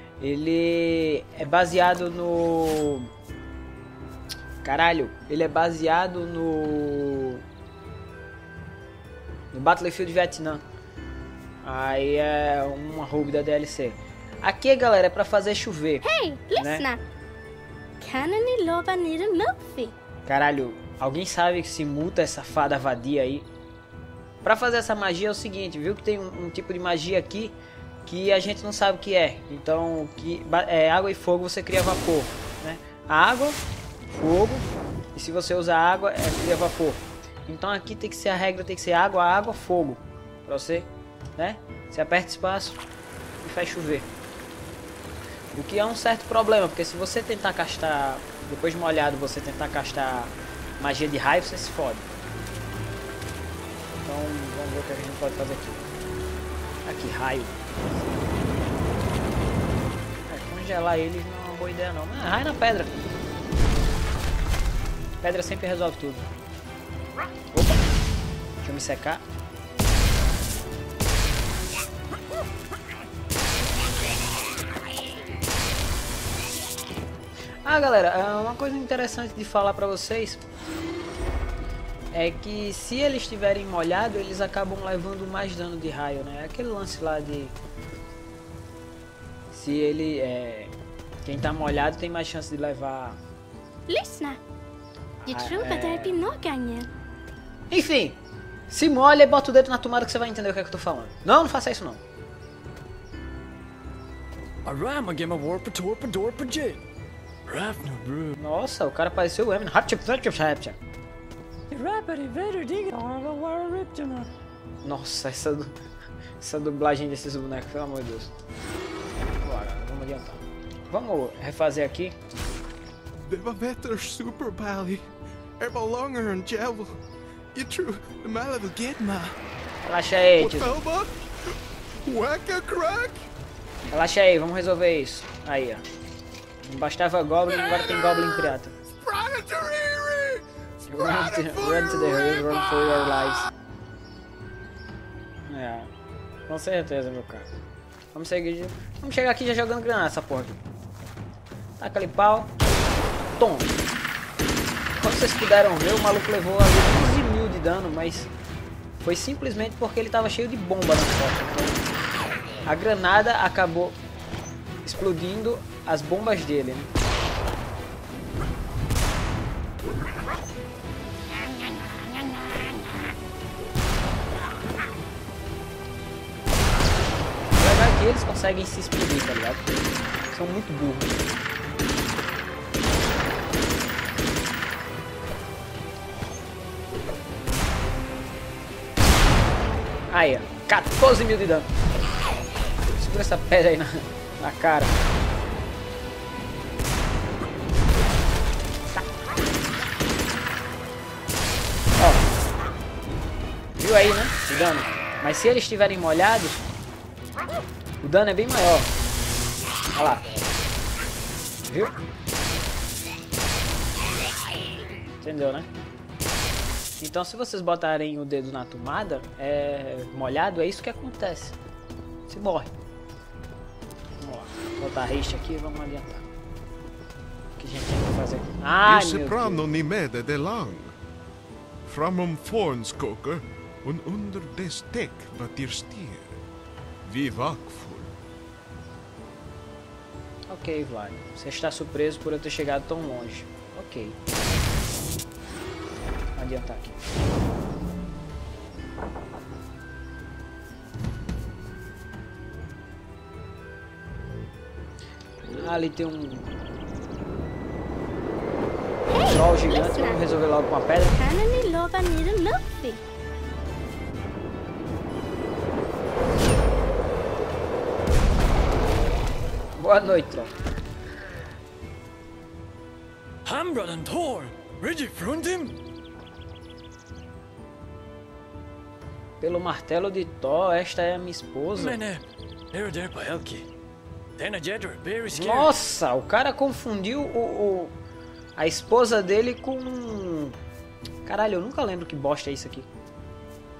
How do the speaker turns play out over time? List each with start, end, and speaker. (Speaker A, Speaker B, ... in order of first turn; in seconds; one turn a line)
Speaker A: 0.2-3.1
Speaker A: 4.6-7.4
Speaker A: 9.5-10.6
Speaker A: 11.6-16.9
Speaker B: 16.0-17.0
Speaker B: 18.0-19.9
Speaker A: 20.2-23.5
Speaker A: 24.4-42.8
Speaker A: 43.4-44.1
Speaker A: 45.5-52.1
Speaker A: 54.0-55.8
Speaker A: 56.8-58.2
Speaker A: 60.3-62.9
Speaker A: 65.2-66.3
Speaker A: 67.5-67.8
Speaker A: 68.6-69.2
Speaker A: 77.6-80.4
Speaker A: 82.1-87.5
Speaker A: 89.5-90.7
Speaker A: 91.2-93.2
Speaker B: 93.9-94.4
Speaker A: 95.2-96.2
Speaker B: 95.3-96.9
Speaker A: 97.7-102.0
Speaker C: 104.6-106.8
Speaker C: 107.5-108.3
Speaker A: 108.3-110.8
Speaker C: 111.7-114.3
Speaker A: 114.8-115.8
Speaker A: 116.4-118.3
Speaker A: 119.4-122.2
Speaker D: 123.3-125.0
Speaker D: 125.6-126.9
Speaker D: 127.5-129.4
Speaker A: 129.8-130.8
Speaker D: 130.4-131.1
Speaker D: 132.1-133.2
Speaker A: 133.9-135.8
Speaker A: 136.6-138.7
Speaker D: 139.1-140.0
Speaker A: 140.9-143.5
Speaker A: 145.5-145.9
Speaker A: 146.5-147.5
Speaker A: 148.1-150.6
Speaker A: 151.8-152.5
Speaker A: 153.4-153.7
Speaker A: 155.0-158.3
Speaker A: 159.0-161.8
Speaker A: 162.7-164.0
Speaker A: 164.8-166.9
Speaker A: 177.5-179.7
Speaker A: 180.3-181.2
Speaker A: 190.1-191.7
Speaker A: 192.9-195.0
Speaker A: 202.0-202.2
Speaker A: 203.8-206.7
Speaker A: 208.0-208.9
Speaker A: 210.0-210.4
Speaker A: 211.7-211.9
Speaker A: 215.2-215.7
Speaker A: 217.0-221.6
Speaker A: 222.3-222.7
Speaker A: 224.2-226.2
Speaker A: 227.6-229.7
Speaker E: 228.8-231.0
Speaker E: 231.8-236.4
Speaker E: 237.0-238.1
Speaker A: 240.5-244.2
Speaker A: 246.3-247.0
Speaker A: 255.4-256.5
Speaker B: 259.1-260.2
Speaker A: 259.2-261.2
Speaker B: 261.1-263.0
Speaker A: 269.8-270.5
Speaker C: 273.5-275.8
Speaker A: 279.4-282.0
Speaker C: 281.8-283.6
Speaker C: 284.4-285.7
Speaker A: 285.3-287.9
Speaker A: 288.6-290.6
Speaker A: 291.2-292.9